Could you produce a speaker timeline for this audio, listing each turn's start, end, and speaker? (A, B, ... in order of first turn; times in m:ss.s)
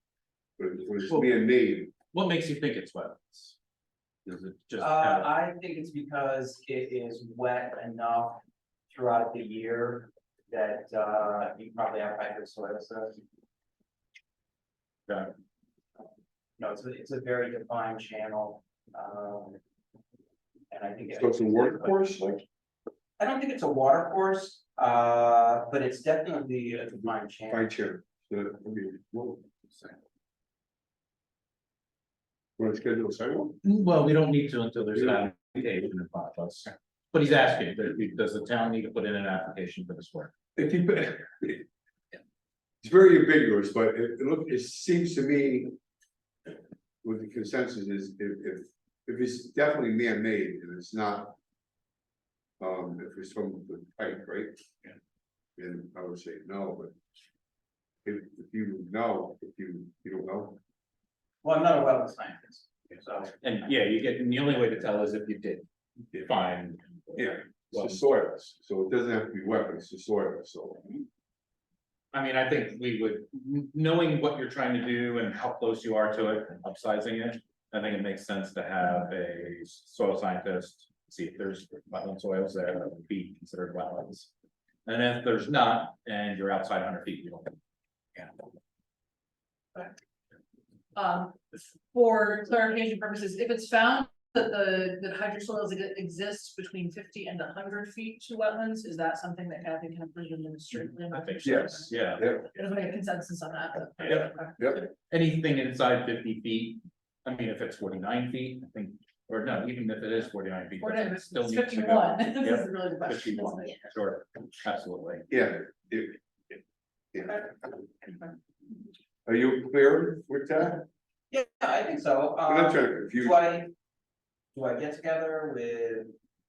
0:00.6-0:01.9 A
0:01.1-0:01.4 B
0:02.1-0:03.6 B
0:04.3-0:05.3 B
0:04.8-0:13.2 C
0:16.6-0:19.6 C
0:20.7-0:22.0 C
0:21.1-0:22.4 A
0:23.2-0:27.6 C
0:27.5-0:29.9 A
0:32.6-0:33.6 A
0:33.6-0:40.4 B
0:40.6-0:41.6 A
0:42.8-0:45.8 A
0:47.0-0:51.4 A
0:52.6-0:54.6 A
0:55.6-0:57.0 A
0:58.0-1:00.6 A
1:01.4-1:03.4 C
1:03.4-1:08.0 B
1:07.2-1:10.8 A
1:12.1-1:24.3 B
1:24.9-1:27.5 B
1:31.0-1:44.8 D
1:41.1-1:42.5 B
1:41.4-1:42.4 A
1:44.0-1:55.3 B
1:44.6-1:44.8 A
1:50.8-1:53.9 D
1:55.3-1:56.6 A
1:57.1-1:57.8 A
1:59.3-2:00.9 A
2:01.3-2:03.7 C
2:02.5-2:03.4 A
2:04.5-2:06.1 C